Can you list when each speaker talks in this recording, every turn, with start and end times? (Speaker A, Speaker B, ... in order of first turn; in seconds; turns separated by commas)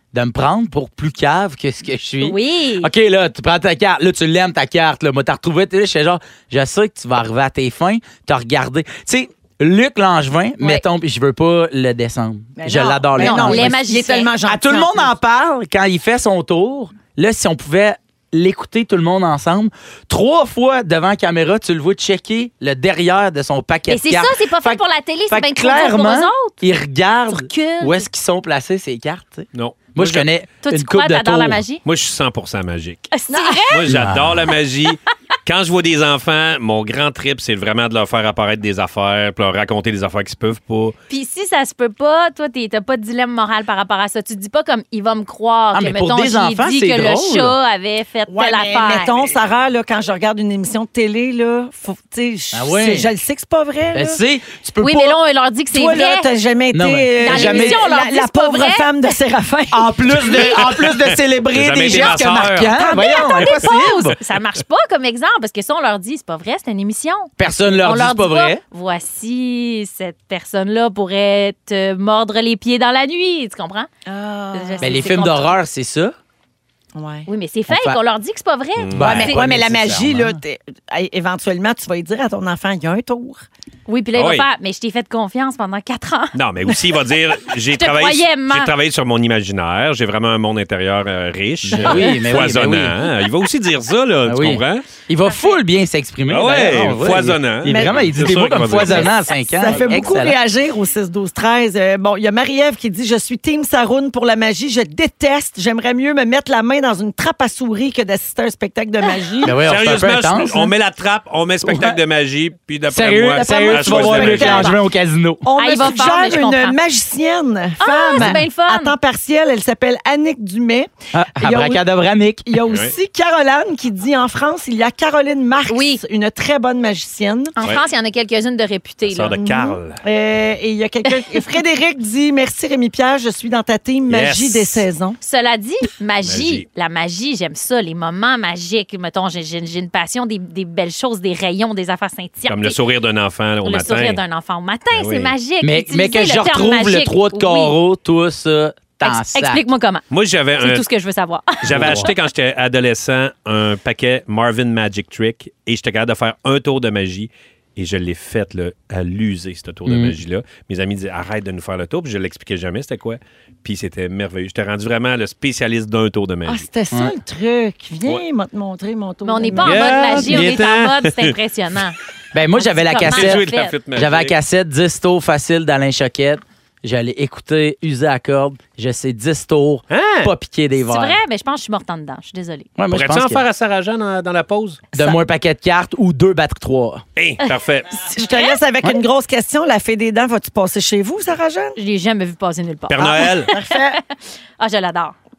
Speaker A: 0.1-13.8, Speaker B: 2.2-2.9, Speaker C: 12.6-15.1, Speaker B: 13.2-14.3, Speaker A: 14.5-31.6, Speaker B: 23.9-26.6, Speaker B: 27.3-28.1, Speaker D: 29.5-30.3, Speaker B: 30.6-31.8, Speaker D: 31.8-33.1, Speaker B: 33.1-33.9, Speaker C: 33.3-33.8, Speaker D: 33.7-41.0, Speaker A: 33.9-34.5, Speaker B: 41.1-49.1, Speaker A: 45.7-47.5, Speaker C: 48.3-54.2, Speaker A: 52.5-53.1, Speaker A: 53.9-55.2, Speaker B: 54.8-56.3, Speaker C: 55.7-60.6, Speaker A: 56.7-57.8, Speaker B: 57.2-59.0, Speaker A: 59.7-64.2, Speaker D: 60.2-62.8, Speaker B: 61.9-73.9, Speaker A: 67.4-68.6, Speaker C: 74.1-75.3, Speaker B: 74.5-75.6, Speaker A: 74.8-76.1, Speaker C: 77.0-77.3, Speaker B: 77.3-79.4, Speaker A: 77.7-78.0, Speaker D: 78.8-79.3, Speaker A: 79.0-80.4, Speaker C: 79.0-83.4, Speaker B: 83.9-86.4, Speaker D: 84.2-84.5, Speaker D: 86.3-94.9, Speaker B: 87.7-88.7, Speaker A: 91.7-93.0, Speaker A: 94.3-100.4, Speaker B: 95.3-95.6, Speaker D: 96.3-99.1, Speaker C: 97.7-109.6, Speaker A: 109.4-110.7, Speaker D: 109.5-114.8, Speaker A: 111.7-112.0, Speaker A: 112.9-115.4, Speaker C: 113.3-114.8, Speaker C: 115.4-121.9, Speaker B: 115.6-116.8, Speaker B: 117.8-119.0, Speaker A: 121.1-122.5, Speaker C: 122.5-127.6, Speaker B: 125.7-126.0, Speaker B: 127.6-129.4, Speaker D: 129.1-130.0, Speaker C: 129.4-135.2, Speaker B: 131.1-131.4, Speaker D: 134.1-134.8, Speaker B: 135.2-142.8, Speaker D: 136.2-136.7, Speaker D: 142.5-144.2, Speaker B: 143.6-147.8, Speaker D: 144.9-145.3, Speaker A: 145.6-149.6, Speaker B: 149.0-150.1, Speaker D: 150.1-150.8, Speaker B: 150.6-152.1, Speaker D: 151.6-166.7, Speaker A: 151.7-152.1, Speaker A: 159.9-160.2, Speaker C: 166.4-170.6, Speaker B: 169.2-172.0, Speaker D: 169.6-171.3, Speaker A: 172.3-181.2, Speaker B: 172.5-173.8, Speaker D: 173.0-174.4, Speaker D: 179.9-180.3, Speaker B: 180.8-182.7, Speaker A: 182.8-183.4, Speaker D: 182.9-184.9, Speaker A: 184.9-187.0, Speaker D: 187.2-188.0, Speaker C: 187.9-191.8, Speaker B: 191.8-194.1, Speaker D: 192.9-193.5, Speaker C: 193.0-194.0, Speaker B: 194.6-195.2